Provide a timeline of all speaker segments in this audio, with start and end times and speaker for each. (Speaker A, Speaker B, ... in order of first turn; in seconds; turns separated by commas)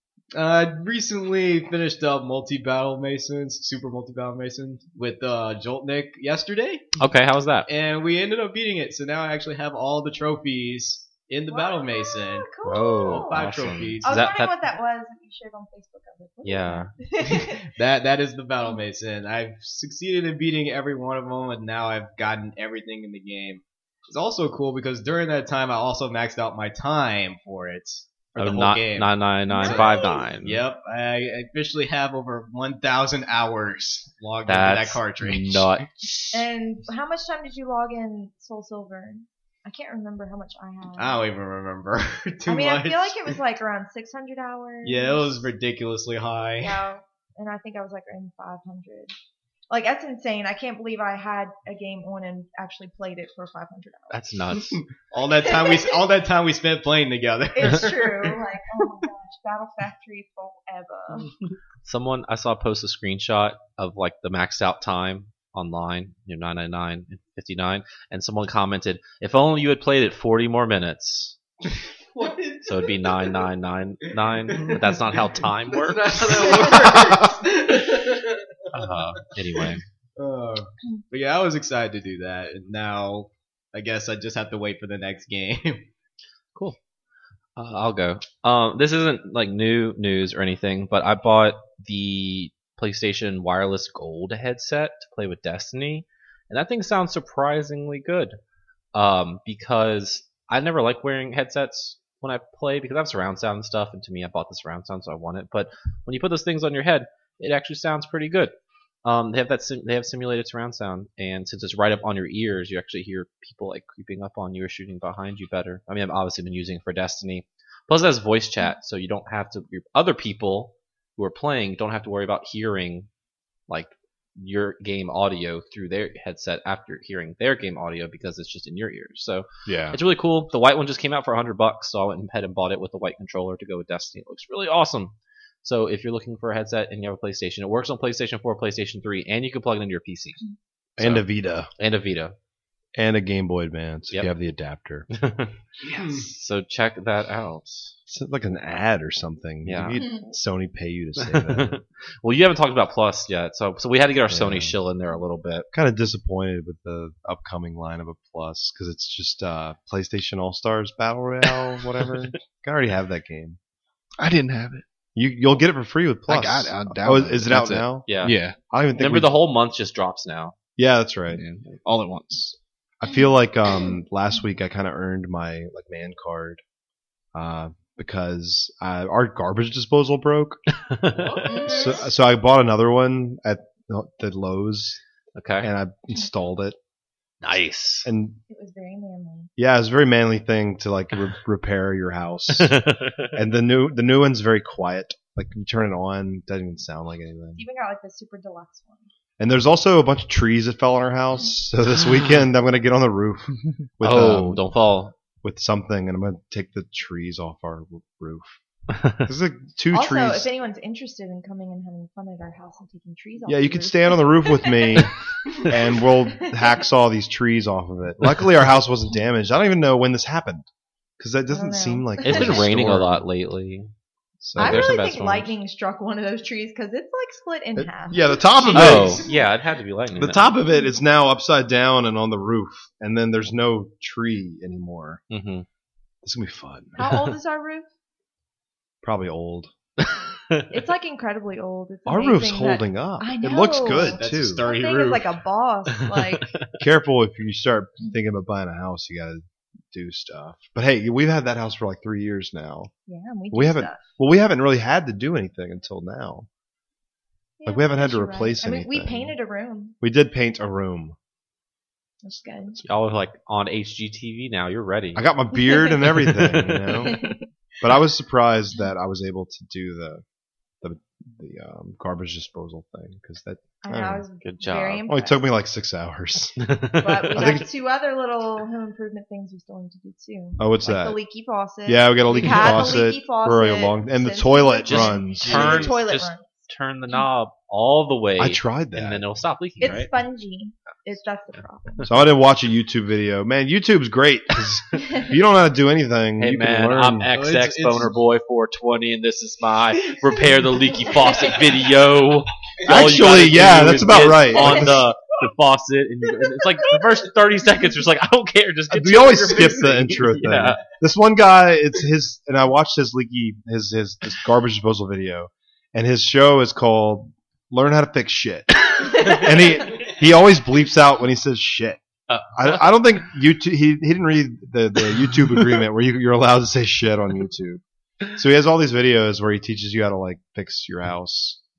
Speaker A: 0.3-7.0, Speaker B: 7.0-7.7, Speaker A: 7.7-12.5, Speaker C: 11.5-17.7, Speaker B: 12.7-14.5, Speaker A: 13.0-14.3, Speaker B: 16.4-16.9, Speaker A: 17.3-35.8, Speaker B: 28.4-30.6, Speaker C: 29.5-30.2, Speaker B: 34.5-36.4, Speaker C: 36.3-41.2, Speaker A: 41.0-43.4, Speaker C: 42.5-45.5, Speaker A: 44.8-46.8, Speaker C: 46.6-49.1, Speaker C: 49.7-54.3, Speaker B: 54.1-54.8, Speaker A: 54.5-58.4, Speaker C: 55.4-56.0, Speaker C: 57.5-61.3, Speaker B: 61.8-71.4, Speaker A: 72.1-73.3, Speaker B: 72.6-77.0, Speaker A: 74.5-79.0, Speaker B: 78.7-79.8, Speaker A: 79.7-85.9, Speaker B: 87.5-98.4, Speaker B: 98.9-108.5, Speaker B: 109.0-123.1, Speaker B: 123.7-140.4, Speaker D: 129.7-130.0, Speaker B: 141.0-141.2, Speaker E: 141.0-141.7, Speaker B: 141.8-142.3, Speaker E: 142.9-145.1, Speaker B: 145.1-145.5, Speaker D: 145.8-146.3, Speaker A: 146.0-146.3, Speaker B: 146.2-147.9, Speaker E: 148.1-151.8, Speaker B: 149.6-150.0, Speaker C: 149.9-150.2, Speaker B: 151.2-155.7, Speaker E: 154.3-154.7, Speaker E: 155.7-163.6, Speaker D: 164.2-164.8, Speaker E: 165.1-168.1, Speaker D: 166.3-168.6, Speaker B: 168.0-168.4, Speaker E: 168.7-169.4, Speaker B: 168.9-170.5, Speaker E: 170.8-171.4, Speaker D: 171.3-172.6, Speaker E: 173.0-176.6, Speaker E: 177.3-180.6, Speaker B: 180.8-181.8, Speaker C: 181.4-182.0, Speaker E: 181.4-185.0, Speaker B: 185.3-185.7, Speaker E: 185.6-186.8, Speaker B: 187.4-188.1, Speaker E: 188.0-188.4, Speaker C: 188.5-189.5, Speaker E: 189.6-197.6, Speaker B: 192.6-193.3, Speaker C: 197.6-199.1, Speaker E: 199.4-204.6, Speaker B: 204.0-205.1, Speaker E: 205.4-208.6, Speaker B: 208.9-209.2, Speaker E: 209.2-210.5, Speaker C: 209.9-215.1, Speaker E: 213.4-220.7, Speaker C: 216.4-216.7, Speaker E: 221.2-223.2, Speaker C: 221.5-222.6, Speaker B: 222.2-223.9, Speaker E: 224.4-224.9, Speaker B: 224.6-225.5, Speaker C: 224.6-228.4, Speaker E: 227.8-229.2, Speaker A: 228.6-229.3, Speaker B: 228.7-230.6, Speaker E: 230.1-235.2, Speaker B: 235.3-235.7, Speaker E: 236.2-237.0, Speaker C: 237.0-237.9, Speaker B: 237.0-237.3, Speaker E: 239.0-239.7, Speaker B: 240.1-240.7, Speaker C: 240.7-246.6, Speaker E: 242.1-244.6, Speaker A: 243.9-245.4, Speaker B: 246.1-246.6, Speaker E: 246.8-252.9, Speaker C: 253.1-254.0, Speaker E: 253.5-256.5, Speaker C: 257.6-259.9, Speaker E: 257.6-259.3, Speaker E: 260.0-261.1, Speaker C: 262.2-262.8, Speaker B: 262.8-265.3, Speaker E: 265.1-270.2, Speaker C: 265.6-265.9, Speaker C: 267.0-267.4, Speaker E: 270.8-274.2, Speaker C: 273.8-275.4, Speaker B: 274.4-275.1, Speaker E: 275.1-276.6, Speaker B: 276.6-277.6, Speaker C: 277.0-287.3, Speaker E: 277.3-277.6, Speaker E: 280.6-281.2, Speaker E: 281.8-285.9, Speaker B: 284.8-290.1, Speaker A: 285.4-285.9, Speaker E: 288.4-289.2, Speaker C: 289.8-292.0, Speaker E: 292.0-297.3, Speaker B: 296.4-310.8, Speaker A: 297.3-298.1, Speaker E: 302.9-305.0, Speaker E: 308.9-322.0, Speaker B: 322.3-322.9, Speaker E: 322.5-327.8, Speaker E: 328.3-331.6